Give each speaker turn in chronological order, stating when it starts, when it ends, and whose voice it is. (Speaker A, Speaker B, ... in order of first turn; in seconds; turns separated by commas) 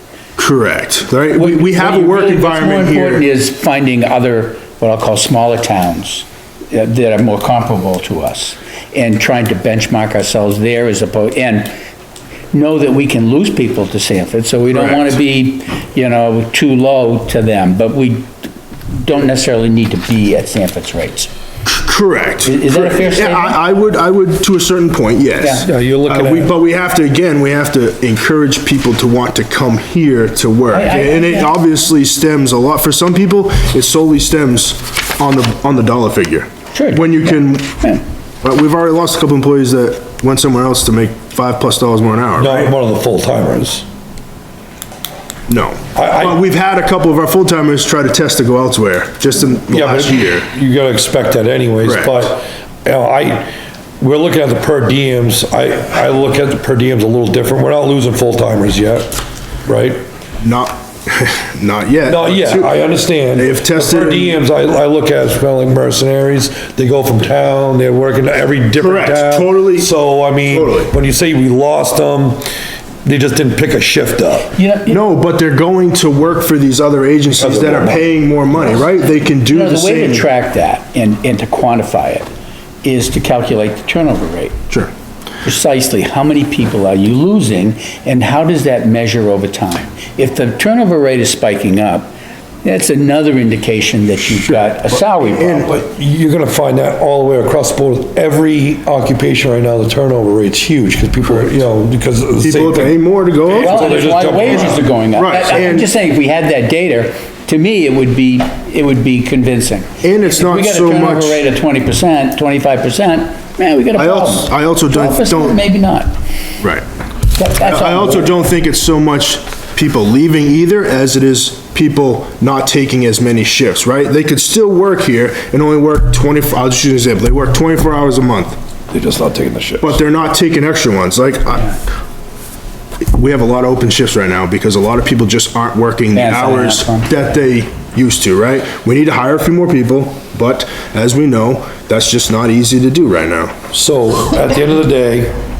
Speaker A: 0.4-3.2, Speaker B: 1.4-11.7, Speaker B: 12.5-18.3, Speaker A: 14.7-15.2, Speaker B: 18.9-21.3, Speaker A: 21.6-37.8, Speaker B: 22.4-23.6, Speaker B: 25.4-25.6, Speaker C: 25.6-26.5, Speaker B: 30.7-31.5, Speaker B: 36.8-38.0, Speaker A: 38.4-42.7, Speaker C: 42.4-43.8, Speaker A: 45.5-50.5, Speaker C: 46.0-46.4, Speaker C: 49.7-53.5, Speaker A: 51.8-52.2, Speaker C: 54.0-59.1, Speaker C: 59.7-60.0, Speaker A: 60.4-62.7, Speaker C: 62.1-72.4, Speaker A: 63.3-64.4, Speaker A: 68.8-69.9, Speaker A: 70.5-70.9, Speaker C: 73.0-74.5, Speaker B: 74.5-75.0, Speaker A: 74.9-80.3, Speaker C: 77.4-78.0, Speaker B: 79.5-82.3, Speaker B: 82.8-84.6, Speaker B: 85.4-92.1, Speaker B: 92.6-95.7, Speaker A: 94.4-95.8, Speaker C: 95.7-103.0, Speaker A: 102.4-104.1, Speaker C: 103.5-104.8, Speaker B: 103.6-116.1, Speaker A: 105.2-105.9, Speaker A: 110.0-111.4, Speaker A: 114.0-115.6, Speaker B: 117.4-118.3, Speaker A: 117.6-128.6, Speaker C: 128.9-130.0, Speaker A: 129.8-131.8, Speaker A: 133.0-143.6, Speaker B: 136.1-137.3, Speaker C: 143.7-145.3